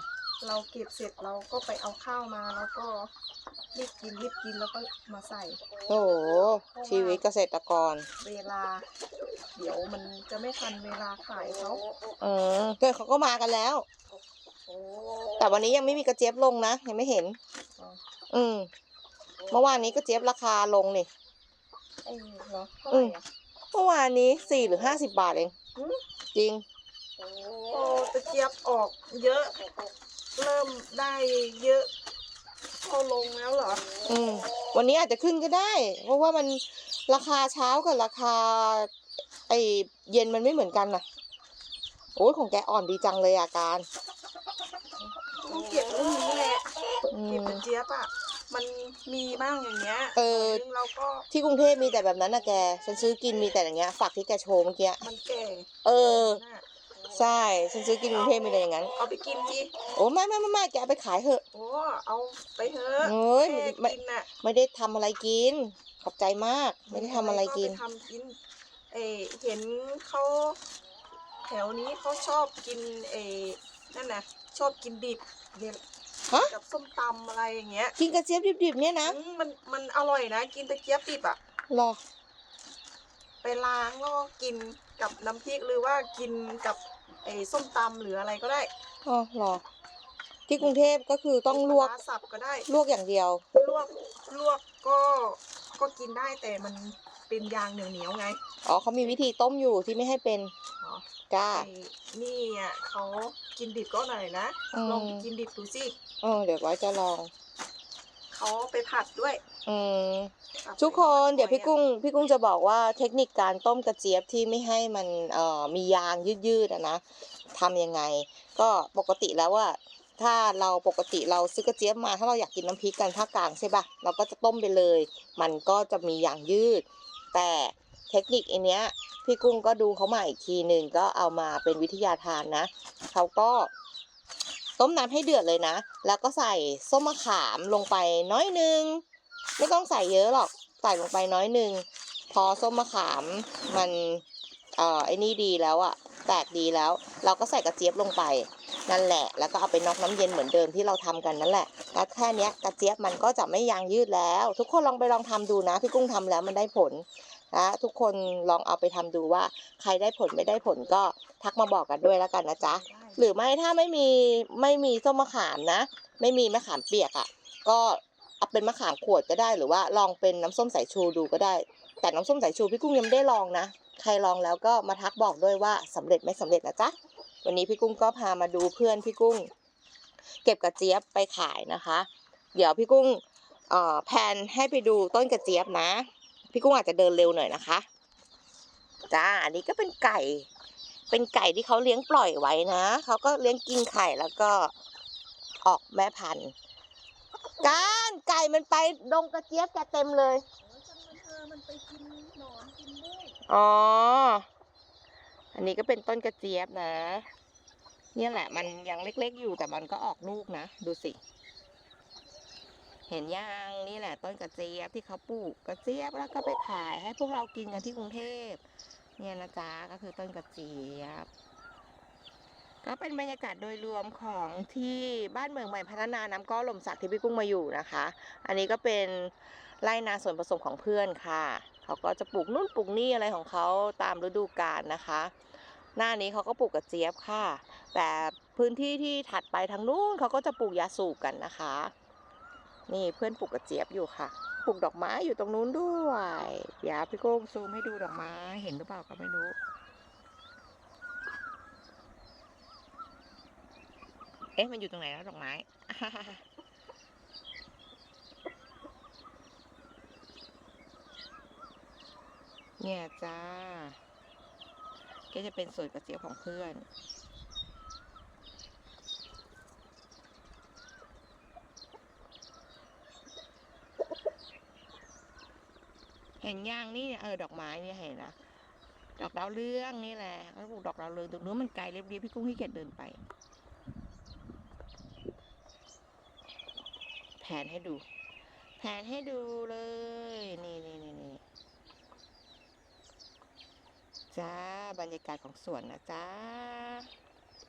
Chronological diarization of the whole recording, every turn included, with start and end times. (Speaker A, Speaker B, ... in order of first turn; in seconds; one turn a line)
Speaker A: 0.4-3.1
Speaker A: 3.7-5.6
Speaker B: 5.9-8.1
Speaker A: 6.7-7.2
Speaker A: 8.2-8.9
Speaker A: 9.5-11.8
Speaker B: 12.2-13.9
Speaker A: 14.7-15.1
Speaker B: 15.3-17.4
Speaker B: 18.3-18.7
Speaker B: 19.5-21.1
Speaker A: 22.0-23.2
Speaker B: 22.9-23.2
Speaker B: 23.7-25.5
Speaker A: 25.8-26.0
Speaker B: 26.3-26.6
Speaker A: 27.7-29.5
Speaker A: 30.4-31.9
Speaker A: 32.8-33.8
Speaker B: 34.0-38.9
Speaker B: 39.5-41.0
Speaker B: 42.2-43.9
Speaker A: 45.4-46.7
Speaker B: 47.1-47.6
Speaker A: 47.3-51.3
Speaker B: 50.2-50.6
Speaker B: 51.3-55.0
Speaker A: 55.0-56.6
Speaker B: 55.8-56.4
Speaker B: 57.1-58.9
Speaker A: 58.9-59.7
Speaker B: 59.9-61.4
Speaker A: 61.5-64.3
Speaker B: 63.0-67.8
Speaker A: 66.9-68.4
Speaker A: 68.9-70.6
Speaker A: 71.4-75.8
Speaker A: 76.3-78.0
Speaker B: 78.0-79.2
Speaker A: 79.0-81.4
Speaker B: 81.7-82.0
Speaker A: 83.4-88.7
Speaker B: 89.0-89.6
Speaker B: 90.5-91.9
Speaker A: 91.5-92.7
Speaker B: 92.7-93.4
Speaker A: 93.5-98.4
Speaker B: 98.6-100.5
Speaker A: 100.8-105.9
Speaker B: 101.3-101.7
Speaker B: 104.7-105.2
Speaker B: 106.2-107.3
Speaker A: 108.3-109.4
Speaker B: 109.7-117.0
Speaker A: 110.6-111.7
Speaker B: 117.5-133.7
Speaker B: 134.8-139.0
Speaker B: 139.6-144.2
Speaker B: 144.8-179.5
Speaker A: 162.6-163.3
Speaker B: 180.4-187.9
Speaker B: 189.1-190.5
Speaker B: 191.1-194.7
Speaker B: 195.6-196.5
Speaker B: 197.6-200.4
Speaker A: 200.6-203.4
Speaker B: 203.5-204.5
Speaker B: 205.5-207.3
Speaker B: 208.2-211.2
Speaker B: 213.1-218.6
Speaker B: 219.2-221.3
Speaker B: 222.8-235.3
Speaker B: 236.0-241.9
Speaker B: 242.9-249.6
Speaker B: 254.6-256.4
Speaker B: 262.8-264.0
Speaker B: 265.3-266.9
Speaker B: 276.4-278.4
Speaker B: 279.2-283.2
Speaker B: 287.4-288.0
Speaker B: 288.8-291.4
Speaker B: 294.3-297.1